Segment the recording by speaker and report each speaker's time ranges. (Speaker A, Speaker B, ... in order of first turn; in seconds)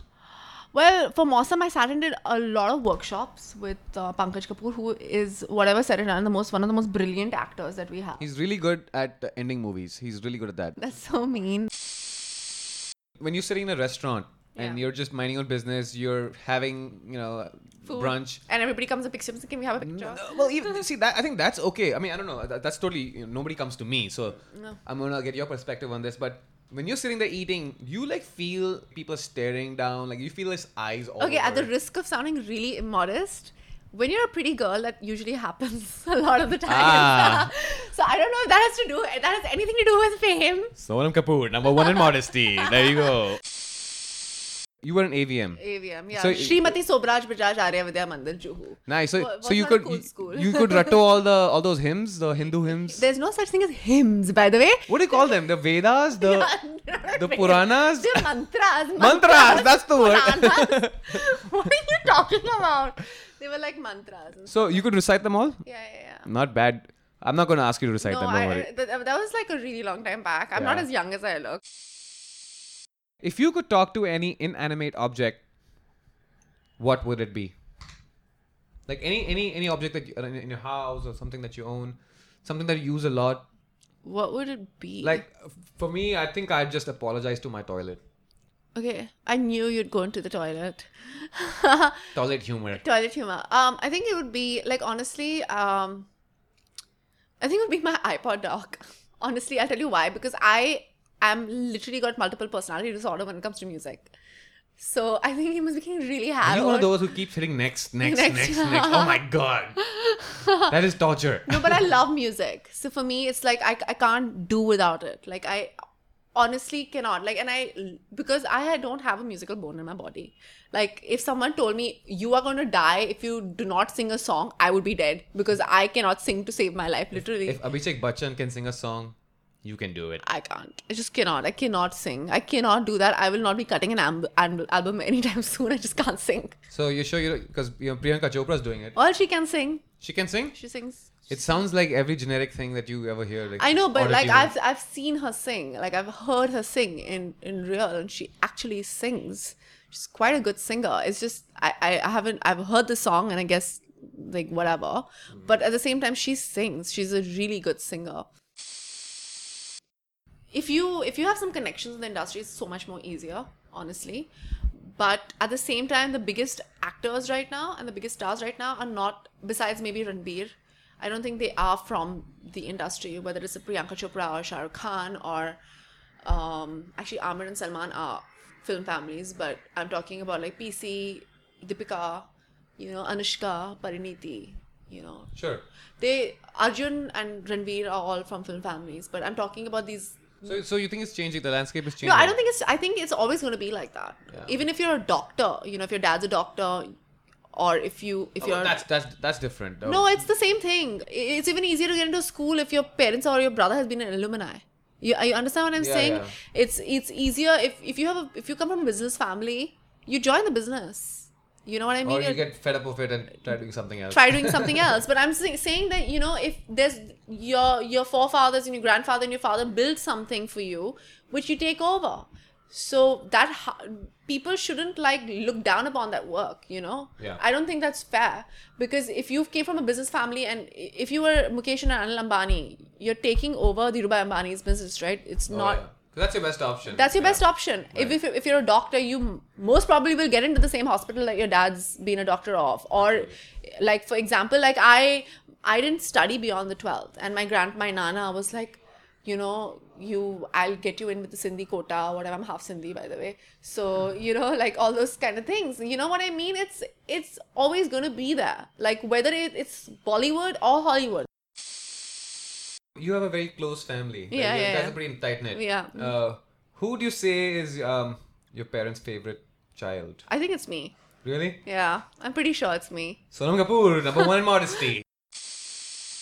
Speaker A: 0.7-8.2, 10.8-11.7, 17.9-20.4, 24.5-24.8, 31.2-40.8, 45.6-51.0, 52.9-55.4, 56.2-64.8, 65.7-66.3, 68.0-71.6, 84.0-85.3, 88.8-92.1, 92.8-96.1, 97.4-104.1, 104.8-107.0, 108.0-109.2, 109.8-110.7, 111.5-115.7, 116.3-127.6, 130.2-136.6, 139.0-139.8, 140.5-141.4, 143.6-158.3, 160.5-175.6, 176.2-182.3, 182.8-185.3, 186.0-190.6, 192.0-196.9, 197.5-198.8, 199.8-212.5, 214.1-235.8, 236.9-261.3, 264.3-266.1, 270.3-270.9, 271.6-273.2
Speaker B: 8.2-10.8, 13.2-18.4, 19.8-31.7, 36.7-37.5, 40.8-43.4, 44.8-45.6, 46.1-46.8, 48.9-53.0, 54.9-56.5, 57.1-58.3, 59.0-61.0, 64.5-65.6, 66.2-68.7, 70.6-70.8, 73.2-75.4, 76.8-77.5, 78.9-83.4, 85.0-88.0, 92.1-92.8, 106.4-109.8, 110.7-111.9, 127.2-130.2, 136.7-139.0, 140.0-140.6, 141.3-144.5, 185.3-185.6, 190.4-192.4, 198.4-200.1, 205.8-206.3, 212.0-214.8, 235.5-238.2, 243.0-243.3, 263.0-270.2, 271.2-271.6, 273.3-275.0